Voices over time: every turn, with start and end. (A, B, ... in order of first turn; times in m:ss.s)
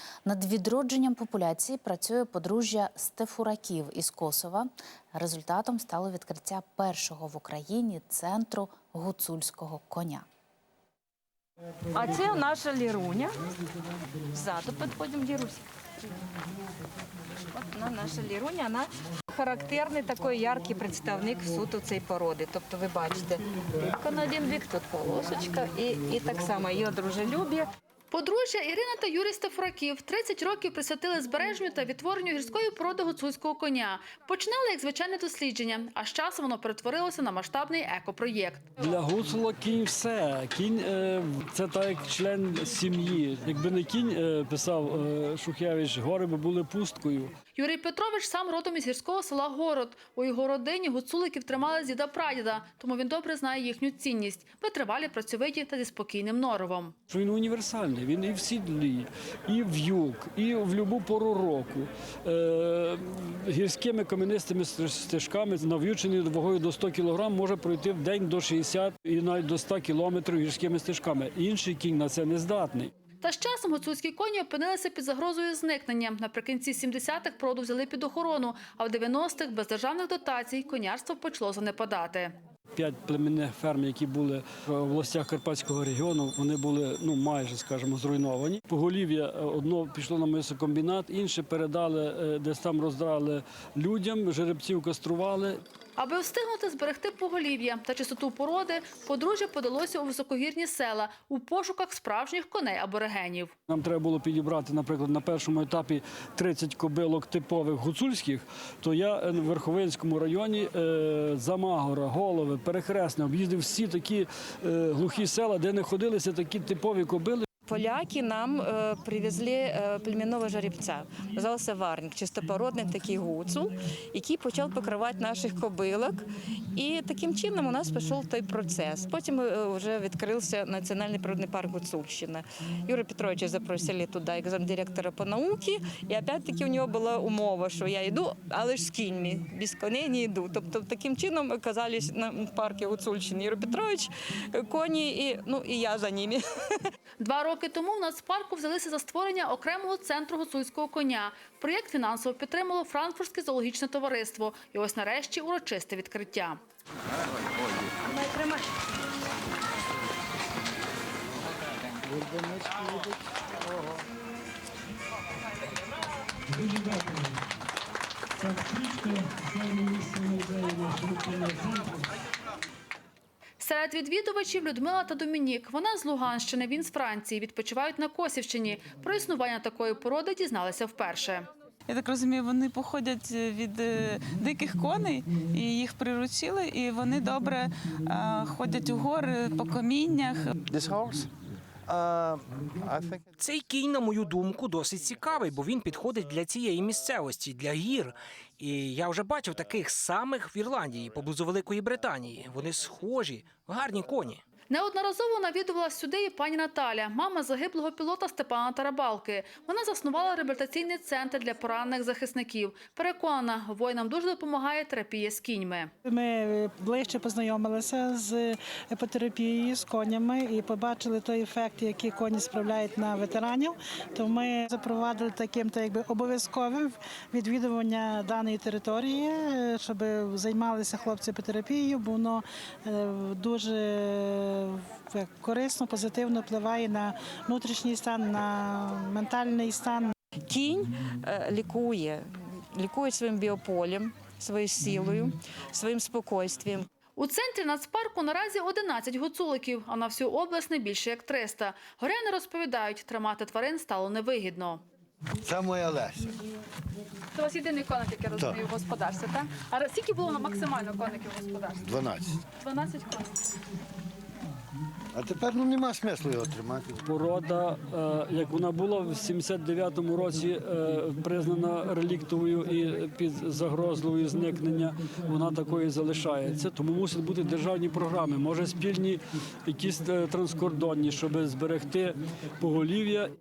0:00.3-0:10.3 A
0:11.9-0:13.4 B
0:14.3-0:15.6 B
0:17.5-0:27.7 B
0:28.1-0:38.7 C
0:38.8-0:47.3 D
0:47.6-0:56.9 C
0:57.1-1:12.9 D
1:13.2-1:22.4 C
1:22.7-1:35.6 D
1:36.0-1:43.5 C
1:43.7-1:57.5 D
1:57.6-2:26.8 B
2:27.2-2:36.6 C
2:46.5-2:47.3 D
2:48.4-2:52.0 D
2:53.6-3:01.5 C
3:01.9-3:10.6 E
3:10.7-3:11.3 F
3:11.8-3:13.2 F
3:13.4-3:24.4 G
3:24.7-3:35.9 C
3:36.1-4:00.1 H
4:00.4-4:06.9 B
4:07.2-4:14.8 C
4:15.4-4:16.3 I
4:17.4-4:21.9 C
4:21.8-4:22.4 I
4:22.6-4:23.4 C
4:25.1-4:27.0 I
4:27.1-4:43.3 D